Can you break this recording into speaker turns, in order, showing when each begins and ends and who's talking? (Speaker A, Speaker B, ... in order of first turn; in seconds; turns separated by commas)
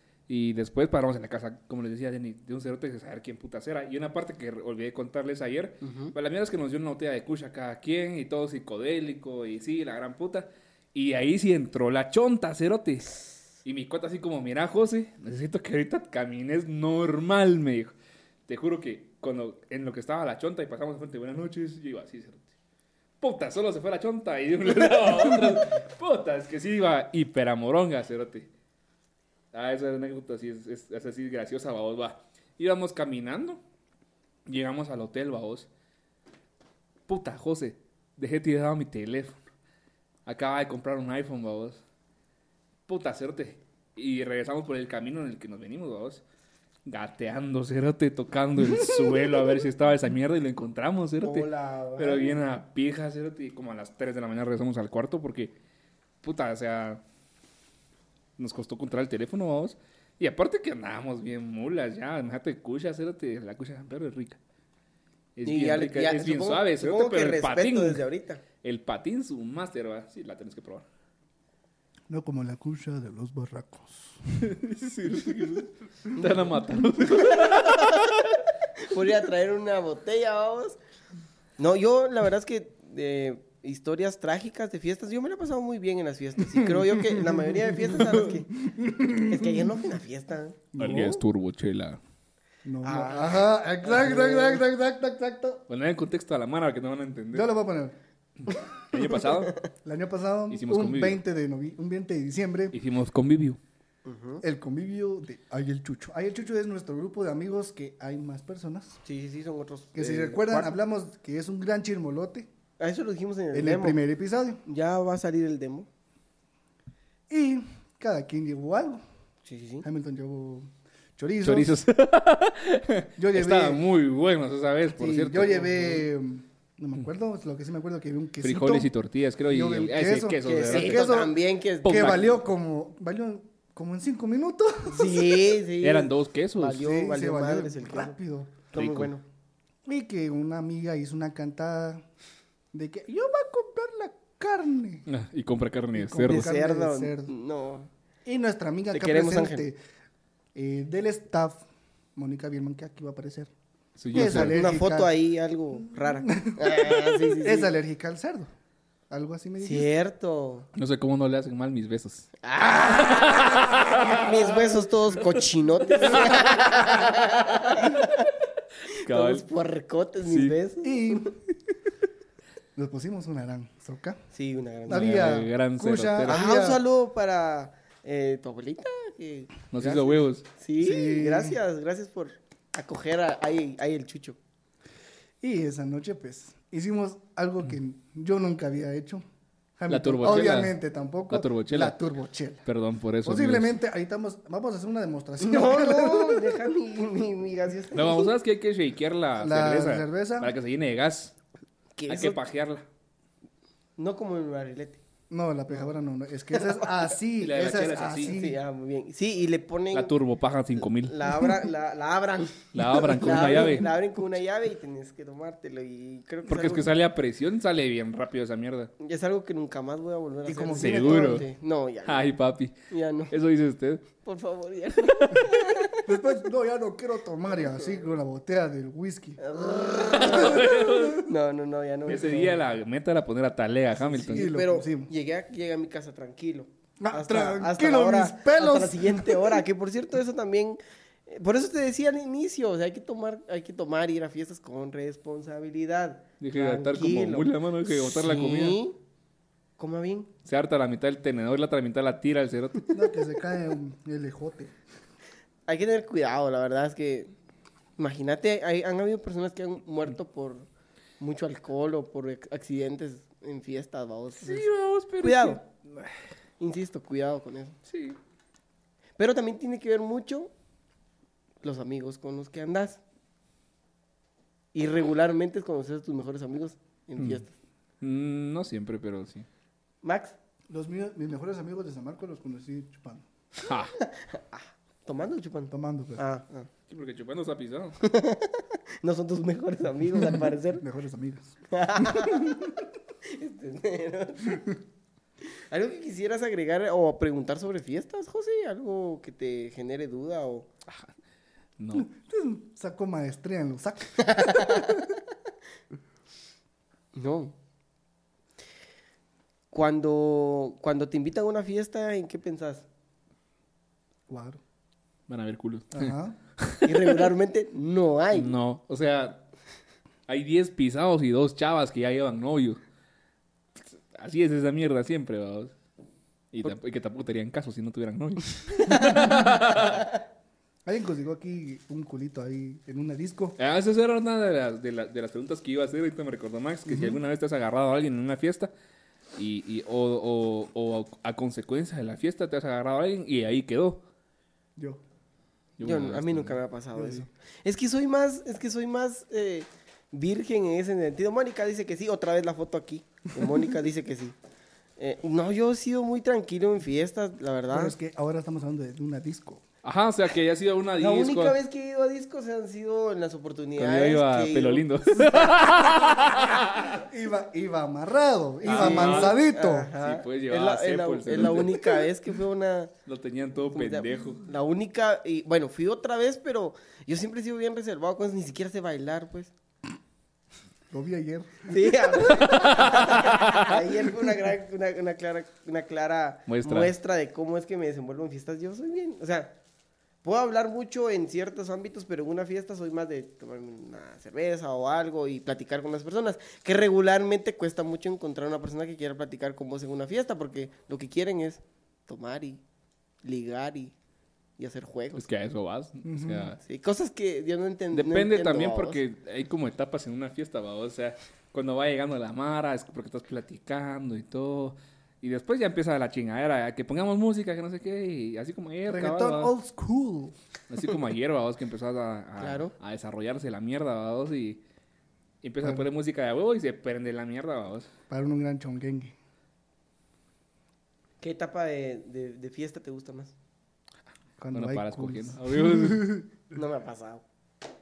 Speaker A: 0.3-17.9, Speaker B: 5.8-6.1, Speaker A: 18.5-22.5, Speaker A: 23.2-28.5, Speaker A: 29.5-33.6, Speaker A: 34.5-35.7, Speaker A: 37.1-39.3, Speaker A: 40.2-41.8, Speaker A: 42.9-46.2, Speaker A: 46.9-55.5, Speaker B: 51.2-52.4, Speaker A: 56.2-57.0, Speaker A: 58.4-64.4, Speaker A: 65.3-68.0, Speaker B: 65.4-68.4, Speaker A: 68.6-70.8, Speaker C: 72.1-74.5, Speaker A: 74.4-78.4, Speaker B: 77.2-78.2, Speaker B: 78.8-80.8, Speaker B: 81.6-88.5, Speaker C: 87.1-89.8, Speaker B: 89.2-91.2, Speaker C: 90.7-91.2, Speaker A: 90.8-92.0, Speaker C: 92.6-95.6, Speaker B: 92.8-94.6, Speaker A: 95.7-97.5, Speaker C: 97.3-97.9, Speaker A: 98.5-99.5, Speaker B: 99.2-99.7, Speaker C: 99.8-102.7, Speaker A: 100.5-101.2, Speaker A: 102.7-103.6, Speaker B: 104.0-104.4, Speaker C: 104.4-109.0, Speaker B: 109.0-110.7, Speaker C: 109.9-112.5, Speaker B: 112.8-114.0, Speaker C: 113.5-114.6, Speaker B: 114.7-115.9, Speaker C: 117.3-119.0, Speaker B: 119.4-119.8, Speaker C: 119.8-121.8, Speaker A: 121.4-125.9, Speaker C: 123.2-123.8, Speaker C: 125.0-128.9, Speaker A: 128.4-131.2, Speaker C: 129.5-135.6, Speaker B: 130.4-132.3, Speaker A: 131.8-132.3, Speaker B: 134.9-138.1, Speaker A: 135.8-136.8, Speaker C: 136.7-138.7, Speaker B: 138.7-139.2, Speaker A: 138.7-139.1, Speaker C: 139.8-142.0, Speaker C: 142.7-145.1, Speaker A: 145.1-146.5, Speaker C: 145.9-147.3, Speaker B: 146.3-147.9, Speaker C: 148.2-149.8, Speaker B: 148.9-149.7, Speaker C: 150.5-151.6, Speaker C: 152.2-153.5, Speaker A: 154.0-154.6, Speaker C: 154.1-155.1, Speaker B: 154.1-157.7, Speaker C: 156.0-158.5, Speaker C: 159.1-159.9, Speaker B: 159.6-160.7, Speaker A: 160.7-162.3, Speaker B: 162.4-168.3, Speaker A: 163.0-164.3, Speaker A: 166.1-166.9, Speaker B: 168.9-171.3, Speaker A: 169.0-169.4, Speaker A: 170.2-170.6, Speaker C: 170.8-171.3, Speaker C: 172.8-174.2, Speaker B: 174.3-175.3, Speaker C: 174.9-176.8, Speaker A: 174.9-176.4, Speaker B: 176.2-184.4, Speaker A: 179.7-180.4, Speaker C: 180.8-181.6, Speaker C: 185.4-189.2, Speaker C: 189.8-192.7, Speaker A: 189.9-190.8, Speaker A: 191.3-192.0, Speaker A: 192.7-193.7, Speaker C: 193.2-196.6, Speaker B: 195.4-198.3, Speaker A: 197.9-201.3, Speaker C: 199.4-200.5, Speaker B: 202.0-202.4, Speaker A: 202.1-202.8, Speaker B: 204.0-205.0, Speaker C: 205.3-208.6, Speaker B: 206.5-206.8, Speaker A: 207.4-208.3, Speaker B: 208.2-210.1, Speaker A: 209.9-211.5, Speaker B: 210.9-216.9, Speaker A: 212.7-213.9, Speaker A: 216.4-218.9, Speaker B: 219.0-222.3, Speaker C: 220.4-221.4, Speaker A: 220.8-221.5, Speaker A: 222.0-222.7, Speaker B: 222.9-223.3, Speaker A: 223.3-224.0, Speaker B: 224.2-226.0, Speaker C: 226.0-229.4, Speaker B: 229.4-232.6, Speaker A: 230.1-231.3, Speaker C: 230.3-231.1, Speaker A: 232.1-234.5, Speaker B: 234.0-248.9, Speaker C: 234.2-235.1, Speaker C: 237.0-239.6, Speaker A: 246.4-248.8, Speaker B: 249.8-250.3, Speaker A: 250.4-252.9, Speaker C: 252.9-254.7, Speaker B: 255.7-257.3, Speaker B: 258.0-260.7, Speaker B: 261.2-264.7, Speaker A: 264.4-266.2, Speaker B: 265.2-265.6, Speaker B: 266.6-267.8, Speaker A: 267.9-268.2, Speaker B: 269.2-270.5, Speaker B: 271.6-273.0, Speaker B: 274.7-277.5, Speaker A: 278.0-279.5, Speaker B: 280.0-280.4, Speaker C: 280.7-283.2, Speaker A: 283.6-283.9, Speaker B: 284.0-286.7, Speaker C: 285.7-286.2, Speaker A: 286.9-288.0, Speaker B: 288.0-290.8, Speaker C: 290.8-291.6, Speaker B: 291.7-294.6, Speaker C: 292.1-292.6, Speaker B: 295.5-300.7, Speaker A: 301.8-302.1, Speaker C: 301.9-305.1, Speaker B: 304.3-304.9, Speaker B: 307.1-307.5, Speaker B: 309.7-312.9, Speaker C: 314.3-314.6, Speaker A: 315.3-317.3, Speaker C: 315.9-316.4, Speaker B: 316.8-318.5, Speaker A: 318.3-319.4, Speaker A: 320.3-322.8, Speaker A: 323.9-325.7, Speaker A: 326.5-330.1, Speaker B: 328.9-329.3, Speaker C: 329.1-329.5, Speaker C: 330.9-333.6, Speaker A: 333.6-338.7, Speaker C: 336.9-337.2, Speaker A: 339.4-344.0, Speaker A: 345.8-346.6, Speaker B: 345.8-354.4, Speaker C: 346.9-347.3, Speaker B: 355.0-357.9, Speaker C: 357.7-359.6, Speaker A: 359.8-361.6, Speaker B: 361.0-365.3, Speaker A: 363.8-367.0, Speaker C: 366.9-369.9, Speaker B: 368.6-372.9, Speaker A: 368.6-369.4, Speaker A: 370.0-371.9, Speaker A: 373.1-374.4, Speaker B: 373.7-379.5, Speaker C: 380.9-382.6, Speaker B: 381.6-389.6, Speaker A: 382.5-383.5, Speaker A: 386.5-386.9, Speaker B: 390.2-402.6, Speaker B: 403.2-403.9, Speaker B: 404.6-405.2, Speaker A: 405.1-406.6, Speaker C: 406.0-406.6, Speaker B: 406.6-409.0, Speaker A: 407.9-419.5, Speaker C: 418.9-420.3, Speaker A: 420.7-424.6, Speaker B: 422.4-422.7, Speaker A: 425.4-427.9, Speaker C: 428.1-429.1, Speaker B: 431.2-433.3, Speaker C: 434.4-436.3, Speaker A: 434.5-436.2, Speaker B: 436.5-437.2